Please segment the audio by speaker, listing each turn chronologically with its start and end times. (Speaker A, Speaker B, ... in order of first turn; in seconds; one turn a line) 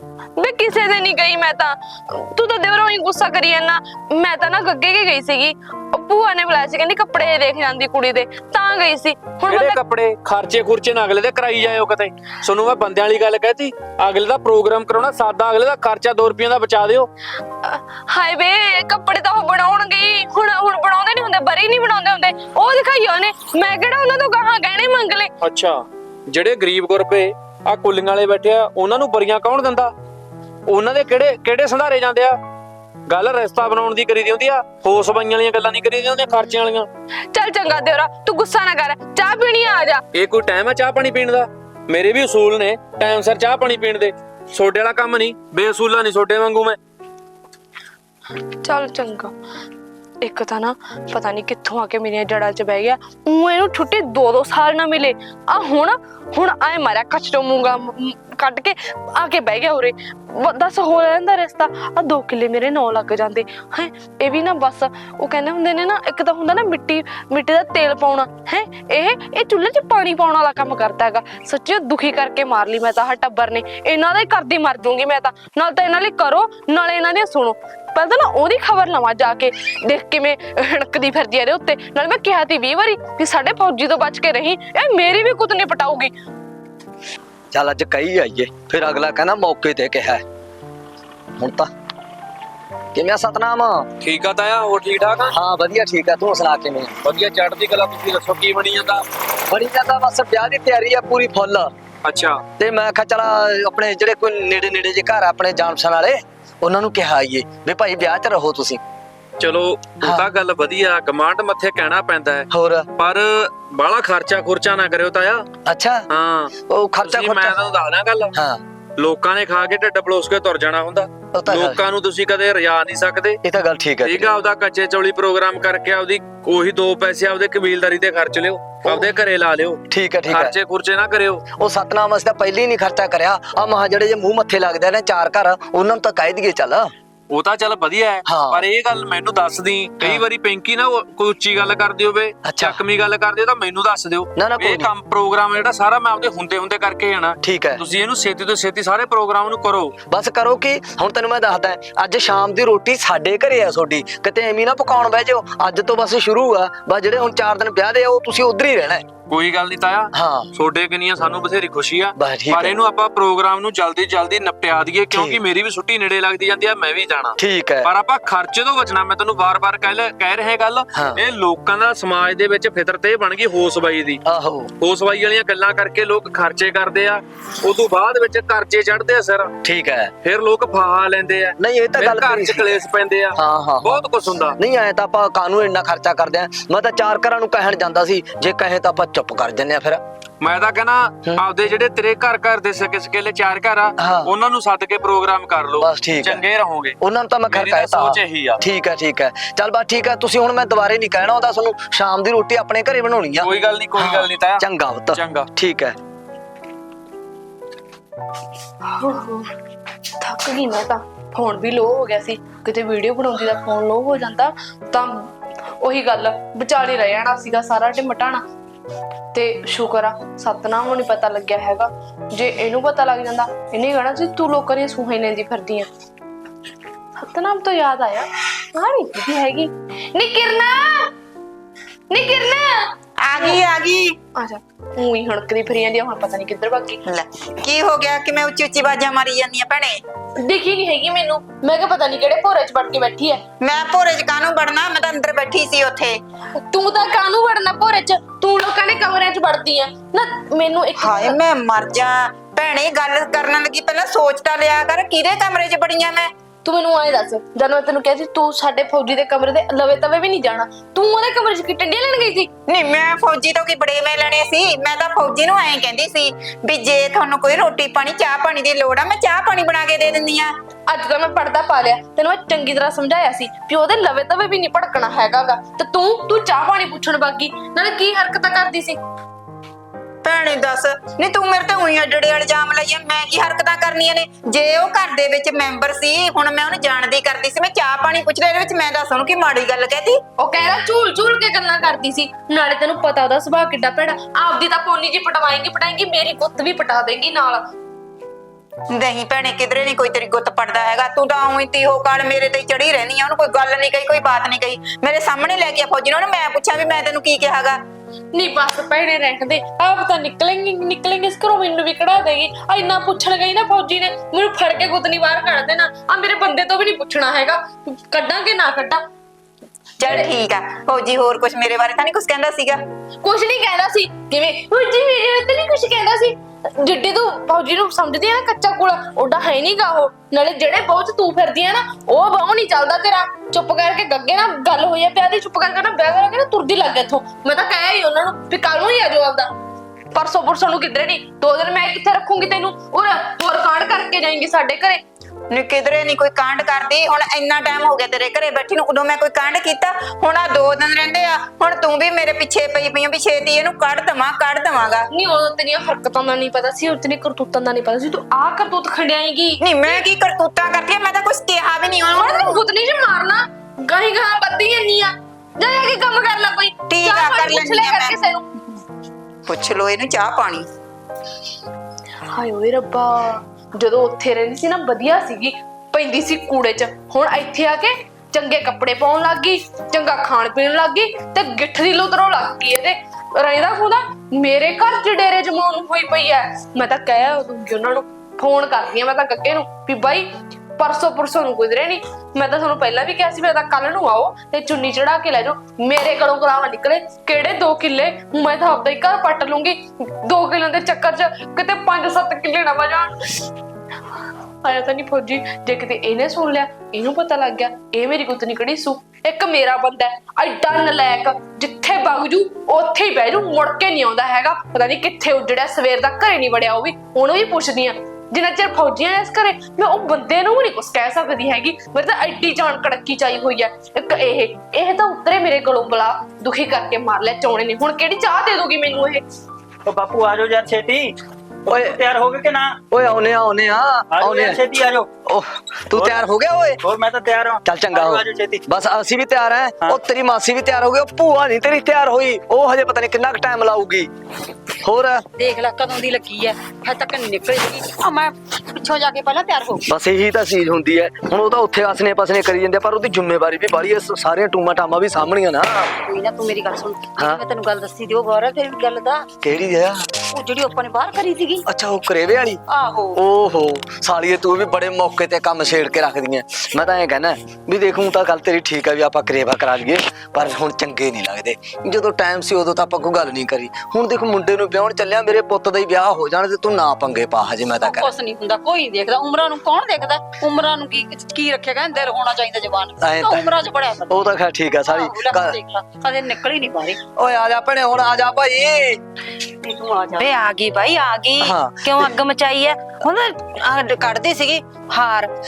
Speaker A: 0.4-9.8
Speaker B: 9.5-17.1
Speaker A: 17.6-25.3
Speaker B: 25.4-29.9
Speaker B: 30.7-32.4
Speaker B: 33.1-36.9
Speaker A: 37.3-40.0
Speaker B: 40.1-46.8
Speaker A: 48.6-49.3
Speaker A: 50.2-86.1
Speaker C: 87.5-90.2
Speaker C: 91.4-91.7
Speaker C: 92.9-93.9
Speaker B: 94.0-95.3
Speaker C: 95.3-96.9
Speaker B: 97.0-99.0
Speaker C: 99.5-101.7
Speaker B: 102.0-102.4
Speaker C: 102.6-108.8
Speaker B: 109.4-115.5
Speaker C: 110.0-110.3
Speaker C: 112.5-112.9
Speaker C: 115.7-116.0
Speaker B: 116.1-116.5
Speaker C: 116.7-117.5
Speaker B: 117.0-118.3
Speaker C: 118.3-118.6
Speaker B: 119.0-123.4
Speaker C: 121.3-121.8
Speaker C: 123.4-124.3
Speaker B: 124.0-131.4
Speaker C: 129.9-130.5
Speaker C: 131.6-136.9
Speaker B: 137.3-149.9
Speaker C: 138.2-138.6
Speaker C: 142.4-142.8
Speaker C: 144.3-144.9
Speaker C: 147.4-147.8
Speaker C: 150.1-159.0
Speaker B: 159.3-174.2
Speaker C: 160.1-160.5
Speaker C: 162.2-162.8
Speaker C: 165.1-165.4
Speaker C: 167.4-167.9
Speaker C: 170.9-171.2
Speaker C: 174.2-174.7
Speaker B: 174.8-179.5
Speaker C: 179.6-180.1
Speaker B: 180.2-184.6
Speaker C: 181.6-182.8
Speaker C: 183.3-183.9
Speaker C: 184.6-190.0
Speaker B: 190.4-196.9
Speaker C: 194.0-194.3
Speaker C: 195.8-196.4
Speaker C: 197.0-206.0
Speaker B: 197.5-198.6
Speaker B: 203.4-205.5
Speaker A: 208.8-209.5
Speaker A: 210.2-218.4
Speaker A: 219.3-225.9
Speaker A: 227.2-231.1
Speaker A: 232.1-233.6
Speaker D: 233.2-234.2
Speaker A: 234.3-237.0
Speaker D: 237.1-240.0
Speaker A: 240.4-243.4
Speaker D: 243.6-246.2
Speaker A: 246.7-251.4
Speaker D: 251.0-256.3
Speaker A: 256.6-262.5
Speaker D: 262.7-270.5
Speaker A: 270.9-279.0
Speaker D: 280.2-290.2
Speaker A: 290.4-297.6
Speaker D: 298.9-307.8
Speaker A: 308.3-319.0
Speaker D: 320.0-322.8
Speaker A: 320.0-320.3
Speaker A: 323.2-339.5
Speaker A: 340.1-345.0
Speaker D: 345.5-355.1
Speaker A: 355.1-360.1
Speaker D: 359.6-362.6
Speaker A: 362.1-368.4
Speaker D: 366.9-368.1
Speaker D: 369.5-370.7
Speaker A: 372.3-403.4
Speaker A: 404.6-429.2
Speaker E: 429.9-431.1
Speaker E: 431.7-432.8
Speaker C: 431.7-432.0
Speaker C: 432.9-434.6
Speaker E: 434.1-435.1
Speaker C: 435.2-436.8
Speaker E: 435.9-436.2
Speaker E: 436.8-438.6
Speaker C: 437.6-444.1
Speaker C: 444.8-445.2
Speaker F: 445.4-449.9
Speaker C: 449.9-455.9
Speaker F: 455.9-459.3
Speaker C: 459.4-460.1
Speaker F: 460.3-461.6
Speaker C: 461.7-462.6
Speaker F: 462.7-463.2
Speaker C: 463.1-478.1
Speaker F: 477.8-484.2
Speaker C: 483.0-483.5
Speaker C: 484.1-485.6
Speaker F: 484.9-487.0
Speaker C: 487.2-489.0
Speaker F: 489.6-490.5
Speaker G: 490.1-495.3
Speaker C: 491.4-492.1